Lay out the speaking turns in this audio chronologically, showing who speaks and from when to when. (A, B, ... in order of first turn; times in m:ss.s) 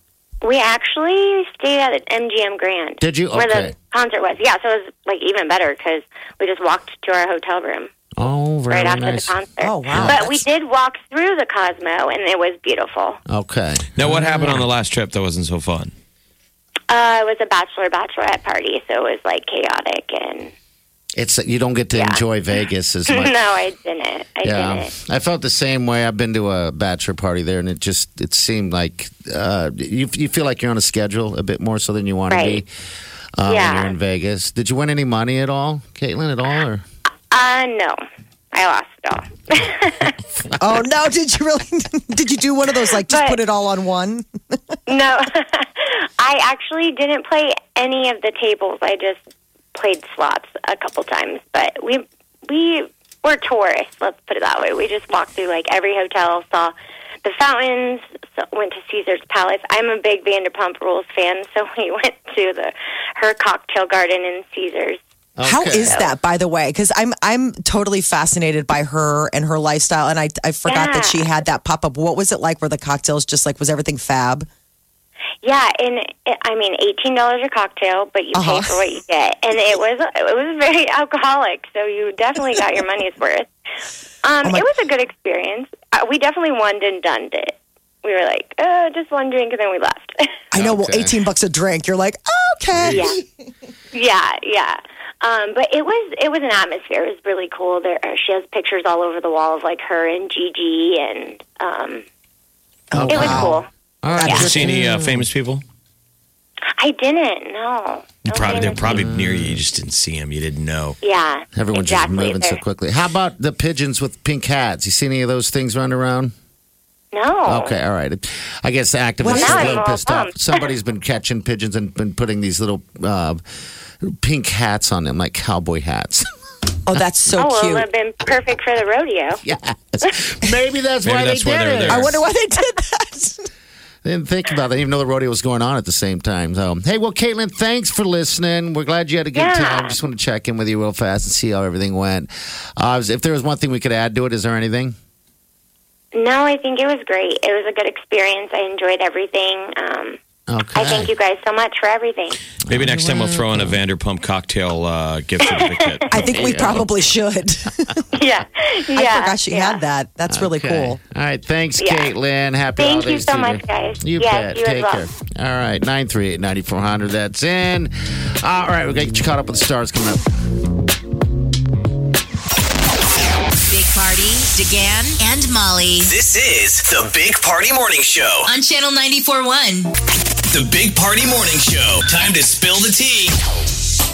0:00.4-0:07.9 A
0:03.0-0:03.7 B
0:08.2-0:09.3 B
0:08.7-0:13.2 A
0:09.6-0:10.4 C
0:09.9-0:10.2 B
0:13.3-0:14.6 B
0:14.0-0:15.9 D
0:16.9-0:20.5 A
0:21.2-0:23.4 B
0:21.9-0:22.2 A
0:23.1-0:24.9 A
0:24.4-0:32.7 B
0:32.3-0:32.6 A
0:33.4-0:36.8 B
0:33.4-0:33.9 A
0:37.3-0:38.0 A
0:38.5-0:40.2 A
0:40.6-0:44.2 C
0:43.1-0:43.4 A
0:44.9-0:49.2 A
0:49.7-1:05.0 A
1:05.4-1:06.0 B
1:05.4-1:14.5 C
1:05.8-1:06.1 A
1:10.7-1:11.2 A
1:15.4-1:23.5 A
1:18.3-1:18.8 C
1:24.2-1:30.3 A
1:30.5-1:33.2 C
1:30.5-1:31.2 B
1:32.8-1:33.0 B
1:32.9-1:33.2 A
1:33.9-1:42.0 A
1:42.9-1:43.6 C
1:42.9-1:45.3 B
1:43.1-1:43.7 A
1:44.2-1:44.7 C
1:44.2-1:45.6 D
1:46.8-1:49.0 A
1:48.3-1:51.0 D
1:48.5-1:49.6 B
1:51.0-1:52.6 A
1:51.5-1:56.3 B
1:57.1-1:57.8 A
1:57.4-2:03.4 B
1:59.2-1:59.8 C
1:59.2-2:00.7 A
2:04.0-2:06.2 B
2:06.8-2:07.9 C
2:07.4-2:09.4 A
2:09.4-2:12.2 B
2:11.0-2:12.2 D
2:11.9-2:13.5 C
2:14.0-2:24.9 B
2:19.3-2:19.9 A
2:26.1-2:30.2 A
2:30.5-2:31.1 B
2:30.7-2:32.4 A
2:32.7-2:33.8 B
2:32.7-2:36.7 D
2:35.4-2:36.0 A
2:36.1-2:38.1 C
2:36.3-2:36.8 B
2:38.1-2:39.8 A
2:38.9-2:41.0 C
2:40.3-2:50.3 B
2:41.8-2:42.1 A
2:42.8-2:45.1 A
2:53.6-2:56.1 E
2:56.0-2:58.5 F
2:58.4-2:59.9 E
3:00.5-3:03.4 F